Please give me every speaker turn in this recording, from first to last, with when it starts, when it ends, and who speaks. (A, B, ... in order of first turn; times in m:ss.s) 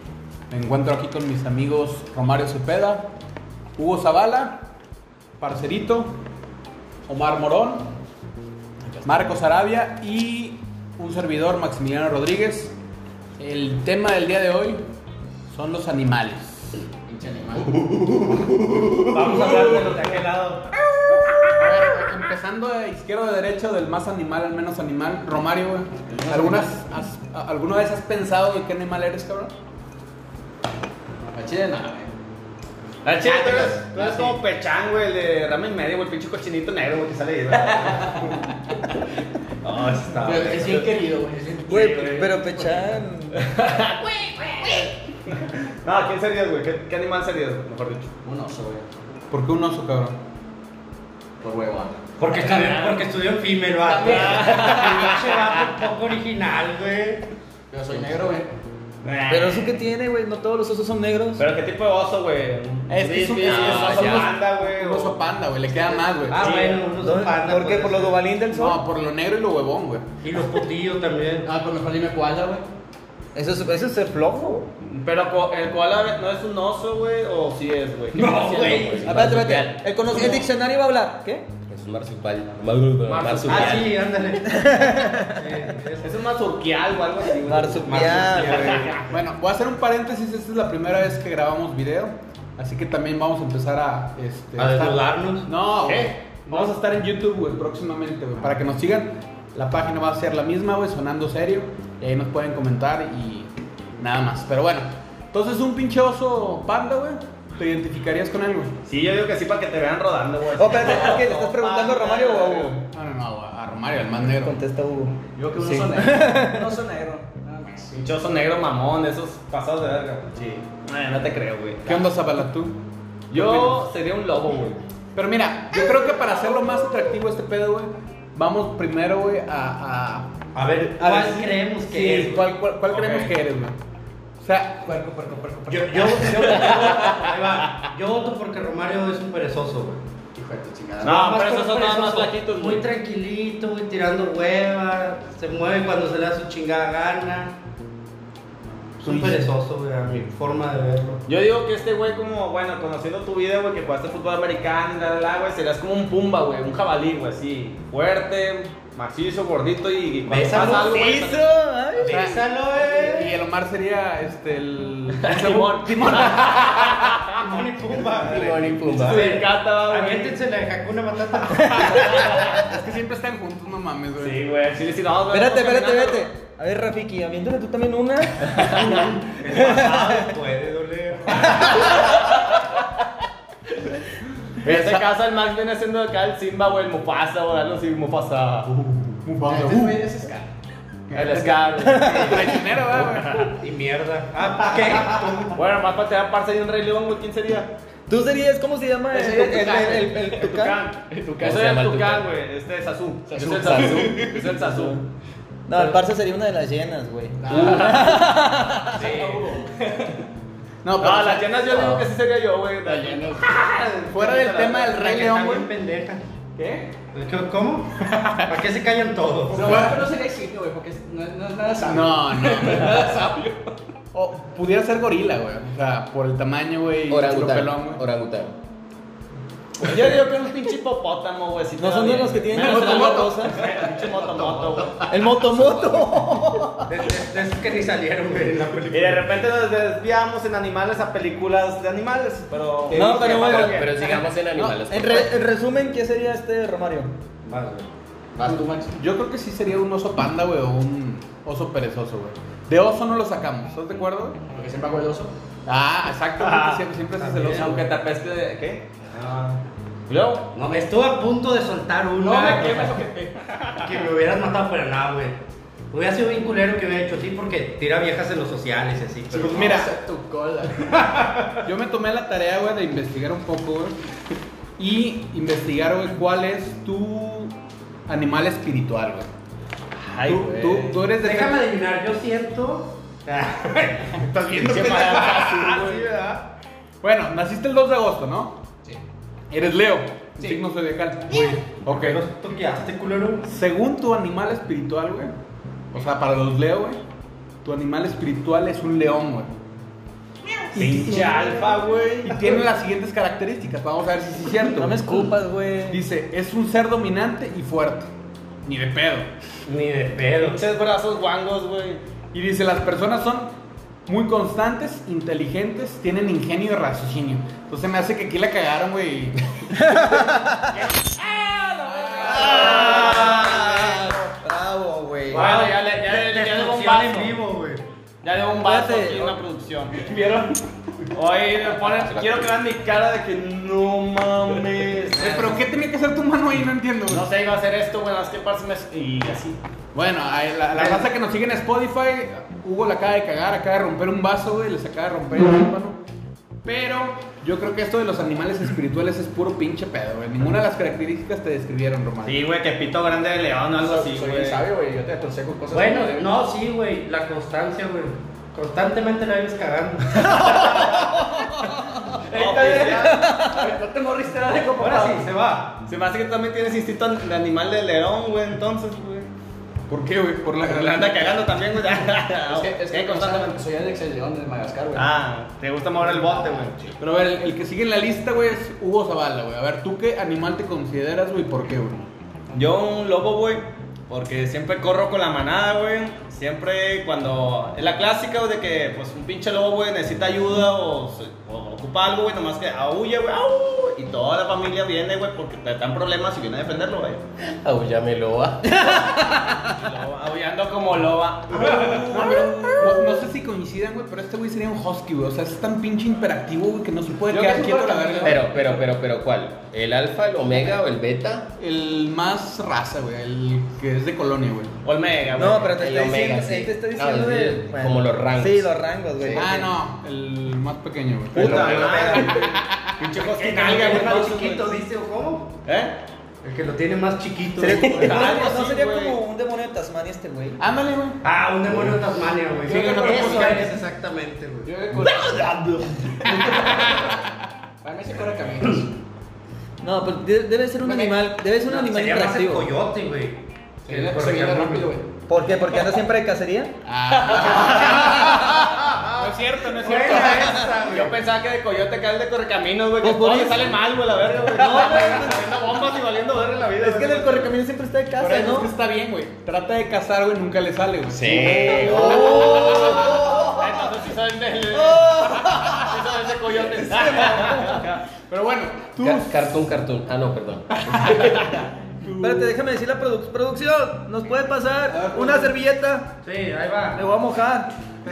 0:00.5-0:03.1 A
0:03.8-0:04.7 A
0:05.4-0:06.2 A
0:07.1-0:07.9 A
0:08.9-0:09.3 B
0:09.0-0:12.7 A
0:13.4-0:14.8 A
0:15.5-0:16.8 A
0:17.0-0:17.9 B
0:19.0-0:20.6 C
0:19.1-0:20.6 D
0:21.6-0:29.5 A
0:26.1-0:26.7 B
0:31.3-0:32.1 B
0:33.0-0:38.4 C
0:33.2-0:34.3 B
0:37.7-0:38.3 B
0:39.6-0:40.9 C
0:40.2-0:43.0 B
0:41.7-0:43.4 E
0:43.4-0:48.1 C
0:48.2-0:48.8 B
0:49.3-0:50.2 A
0:51.4-0:53.0 B
0:52.2-0:57.2 D
0:53.8-0:55.5 B
0:54.0-0:55.3 C
0:57.7-0:58.5 B
0:59.0-0:59.8 C
0:59.3-1:01.4 E
1:01.4-1:05.2 C
1:02.9-1:06.5 A
1:03.4-1:04.3 F
1:06.3-1:08.3 D
1:06.4-1:06.7 C
1:07.0-1:08.8 E
1:08.5-1:10.0 A
1:10.2-1:11.5 D
1:11.4-1:12.6 B
1:13.3-1:14.6 E
1:14.8-1:20.4 C
1:18.1-1:19.1 D
1:19.0-1:21.5 E
1:19.1-1:19.5 F
1:21.7-1:23.9 F
1:23.1-1:23.8 C
1:23.3-1:23.8 B
1:23.5-1:26.1 D
1:24.4-1:25.5 E
1:26.0-1:29.0 C
1:27.4-1:28.9 E
1:28.1-1:28.8 D
1:29.1-1:48.8 A
1:34.6-1:35.5 D
1:35.8-1:36.7 C
1:48.8-1:52.8 C
1:50.5-1:52.8 E
1:52.8-1:54.6 A
1:54.2-1:55.2 E
1:55.4-1:58.1 B
1:55.8-1:56.8 E
1:58.0-2:02.1 C
2:01.8-2:02.8 A
2:03.3-2:04.8 C
2:05.1-2:10.3 A
2:10.5-2:12.5 D
2:11.0-2:11.3 A
2:11.9-2:13.7 A
2:14.4-2:14.9 A
2:14.8-2:17.2 B
2:15.7-2:20.0 D
2:20.4-2:21.2 B
2:21.0-2:22.8 C
2:21.0-2:27.5 D
2:29.0-2:29.5 A
2:29.0-2:31.2 D
2:31.2-2:41.5 C
2:40.3-2:41.1 D
2:40.6-2:42.4 E
2:42.0-2:43.4 D
2:42.1-2:46.8 A
2:45.2-2:47.4 C
2:47.4-2:52.3 D
2:48.3-2:49.4 F
2:48.8-2:50.4 C
2:51.7-2:54.4 A
2:52.1-2:52.6 C
2:54.2-2:56.3 C
2:55.3-3:00.4 E
2:58.8-3:00.2 C
2:59.4-3:01.8 D
3:01.5-3:02.1 C
3:04.6-3:09.1 C
3:09.2-3:10.0 A
3:09.4-3:10.5 B
3:11.1-3:13.4 A
3:11.1-3:12.1 C
3:11.8-3:12.6 E
3:13.0-3:13.5 C
3:13.4-3:15.6 D
3:15.5-3:17.7 C
3:18.1-3:20.8 E
3:19.1-3:21.7 B
3:20.4-3:25.0 C
3:21.4-3:22.3 F
3:23.3-3:24.6 B
3:23.4-3:24.1 F
3:24.6-3:25.0 E
3:25.7-3:29.1 E
3:27.4-3:30.2 B
3:27.6-3:27.8 C
3:29.0-3:29.3 F
3:30.8-3:31.5 A
3:31.0-3:34.8 C
3:31.7-3:32.0 B
3:32.8-3:33.8 B
3:34.1-3:35.7 A
3:34.8-3:36.2 D
3:37.1-3:39.9 D
3:38.2-3:38.5 A
3:39.5-3:43.7 B
3:39.6-3:40.0 A
3:41.8-3:43.1 A
3:44.1-3:48.0 A
3:47.1-3:48.6 F
3:49.8-3:55.2 C
3:51.8-3:53.6 E
3:52.5-3:55.0 B
3:55.1-3:56.9 E
3:55.7-3:56.1 F
3:56.9-3:59.3 D
3:58.9-4:04.1 C
4:02.9-4:03.6 A
4:02.9-4:04.0 E
4:03.0-4:05.3 F
4:04.6-4:07.1 E
4:07.4-4:07.9 D
4:08.4-4:09.0 B
4:08.5-4:14.4 A
4:14.5-4:15.3 B
4:15.6-4:17.9 A
4:16.4-4:16.8 C
4:17.2-4:17.6 D
4:17.4-4:20.5 C
4:20.5-4:23.0 D
4:22.2-4:23.4 B
4:23.8-4:25.4 D
4:25.9-4:29.8 D
4:29.4-4:29.9 A
4:29.4-4:31.2 B
4:31.6-4:34.0 A
4:34.8-4:37.5 A
4:38.1-4:39.3 A
4:40.0-4:41.0 C
4:40.2-4:41.6 A
4:41.1-4:45.4 D
4:44.5-4:46.1 B
4:44.5-4:46.4 C
4:47.0-4:48.6 A
4:49.5-4:52.2 A
4:51.3-4:53.4 D
4:53.4-4:55.3 A
4:55.9-4:57.0 A
4:57.6-4:59.5 A
5:00.7-5:01.7 A
5:00.7-5:02.7 C
5:02.2-5:05.1 A
5:04.7-5:06.0 E
5:05.9-5:08.1 A
5:08.6-5:09.3 A
5:09.6-5:10.6 D
5:10.4-5:12.0 C
5:12.3-5:13.5 A
5:14.1-5:19.7 A
5:19.8-5:20.6 E
5:21.8-5:23.5 A
5:22.0-5:22.9 B
5:22.1-5:24.3 C
5:22.2-5:25.5 E
5:25.3-5:27.4 C
5:25.3-5:27.8 D
5:28.2-5:30.1 C
5:28.6-5:29.4 E
5:30.0-5:30.6 B
5:31.1-5:35.6 C
5:32.0-5:32.5 F
5:35.2-5:37.3 A
5:37.1-5:39.6 C
5:39.9-5:46.0 A
5:40.7-5:41.1 C
5:46.6-5:52.4 A
5:52.2-5:54.6 C
5:53.8-5:56.4 B
5:55.7-6:00.6 D
6:00.8-6:01.7 E
6:02.3-6:05.3 B
6:02.3-6:03.2 C
6:02.8-6:03.7 E
6:04.8-6:05.8 D
6:05.8-6:09.3 C
6:09.9-6:11.2 A
6:10.6-6:13.5 C
6:12.5-6:15.1 B
6:14.9-6:16.8 C
6:16.2-6:16.7 B
6:17.0-6:22.0 A
6:22.5-6:37.2 C
6:37.6-6:38.9 F
6:38.9-6:39.5 E
6:39.6-6:42.9 C
6:41.6-6:48.4 A
6:41.7-6:43.2 E
6:47.3-6:48.8 B
6:47.4-6:48.3 C
6:48.2-6:51.5 F
6:51.6-6:54.7 A
6:54.8-6:55.8 C
6:55.4-6:59.7 E
6:55.7-6:59.5 F
6:59.3-7:02.6 A
7:01.3-7:04.8 C
7:01.4-7:02.3 F
7:03.1-7:05.5 D
7:05.6-7:06.0 C
7:06.4-7:08.0 D
7:07.6-7:10.6 E
7:07.7-7:09.2 C
7:10.6-7:11.2 A
7:11.2-7:14.7 D
7:12.6-7:13.8 B
7:14.6-7:17.2 B
7:16.2-7:17.1 A
7:17.8-7:18.9 B
7:19.8-7:22.7 E
7:20.8-7:21.3 B
7:21.6-7:25.0 D
7:23.8-7:25.0 B
7:25.3-7:26.7 E
7:26.9-7:30.7 A
7:27.1-7:28.2 B
7:27.3-7:28.6 E
7:28.9-7:29.3 C
7:29.8-7:31.1 D
7:29.9-7:37.5 C
7:33.0-7:33.7 E
7:34.5-7:35.5 E
7:36.8-7:38.7 E
7:38.2-7:43.1 A
7:41.1-7:42.5 F
7:41.6-7:43.9 E
7:41.7-7:48.0 C
7:44.7-7:47.9 E
7:48.3-7:49.5 A
7:49.0-7:51.5 F
7:50.8-7:52.5 A
7:52.2-7:56.1 E
7:54.9-7:55.5 A
7:56.2-7:57.0 D
7:56.9-7:57.7 E